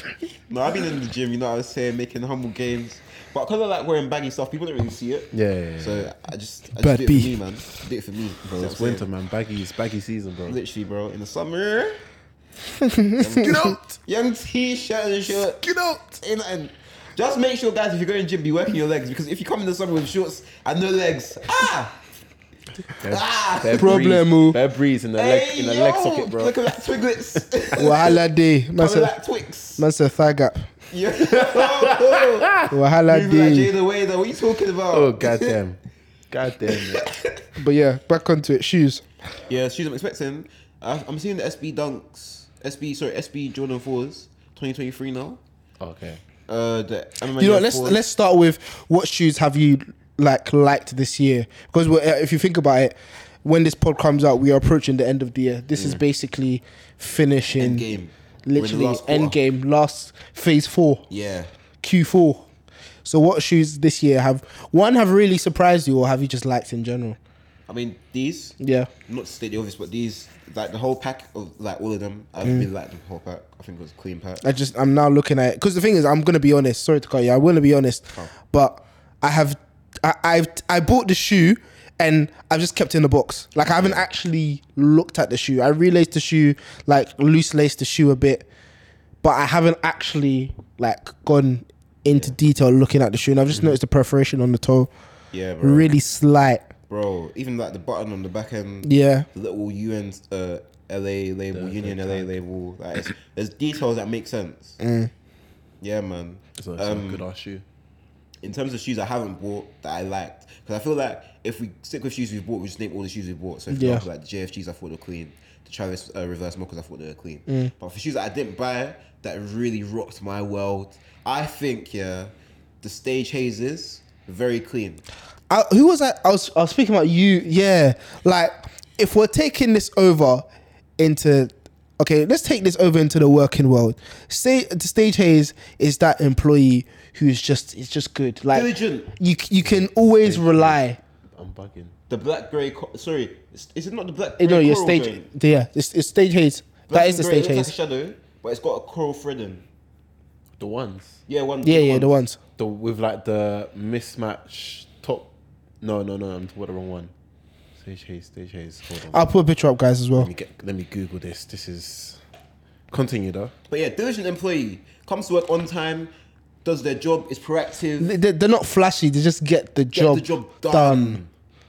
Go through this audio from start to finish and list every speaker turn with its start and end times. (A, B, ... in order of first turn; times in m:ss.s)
0:00.5-0:09.0 A
0:05.3-0:06.1 B
0:06.8-0:07.4 C
0:08.5-0:10.6 B
0:10.5-0:12.0 A
0:12.8-0:13.8 C
0:13.2-0:15.6 A
0:13.4-0:14.0 B
0:15.3-0:16.2 B
0:16.2-0:21.9 A
0:23.0-0:26.7 B
0:23.0-0:24.0 A
0:23.8-0:24.6 C
0:25.2-0:28.2 A
0:27.8-0:29.1 C
0:28.8-0:29.8 A
0:29.8-0:30.7 C
0:30.9-0:35.6 A
0:31.2-0:32.7 B
0:32.7-0:33.7 C
0:34.9-0:35.8 B
0:36.3-0:37.1 B
0:36.7-0:37.4 A
0:37.6-0:39.0 C
0:39.5-0:45.4 A
0:45.8-0:46.2 B
0:46.5-0:48.0 A
0:47.4-0:57.9 C
0:55.8-0:56.0 B
0:57.6-0:59.4 A
0:58.4-1:01.0 C
1:01.1-1:01.5 A
1:01.8-1:02.4 C
1:03.0-1:07.2 C
1:07.7-1:14.4 A
1:08.6-1:08.9 C
1:14.4-1:28.4 C
1:29.2-1:34.9 C
1:32.1-1:32.3 A
1:35.3-1:35.9 A
1:35.6-1:36.6 C
1:36.9-1:44.8 A
1:38.8-1:39.2 C
1:41.5-1:42.3 B
1:44.8-1:45.1 C
1:45.8-1:47.2 A
1:46.6-1:47.6 B
1:48.4-2:05.0 A
1:53.7-1:54.0 C
2:05.5-2:10.4 C
2:11.0-2:21.0 C
2:18.5-2:19.1 A
2:19.6-2:20.8 B
2:21.4-2:21.9 B
2:22.1-2:25.3 A
2:24.4-2:27.7 C
2:26.9-2:29.6 A
2:30.6-2:31.2 B
2:31.3-2:32.2 A
2:31.6-2:32.4 C
2:32.6-2:35.3 B
2:35.8-2:37.1 B
2:37.8-2:39.2 B
2:39.1-2:40.3 C
2:40.2-2:42.2 B
2:42.9-2:43.5 B
2:43.7-2:46.1 A
2:46.6-2:48.1 A
2:48.0-2:51.2 C
2:49.9-2:51.3 A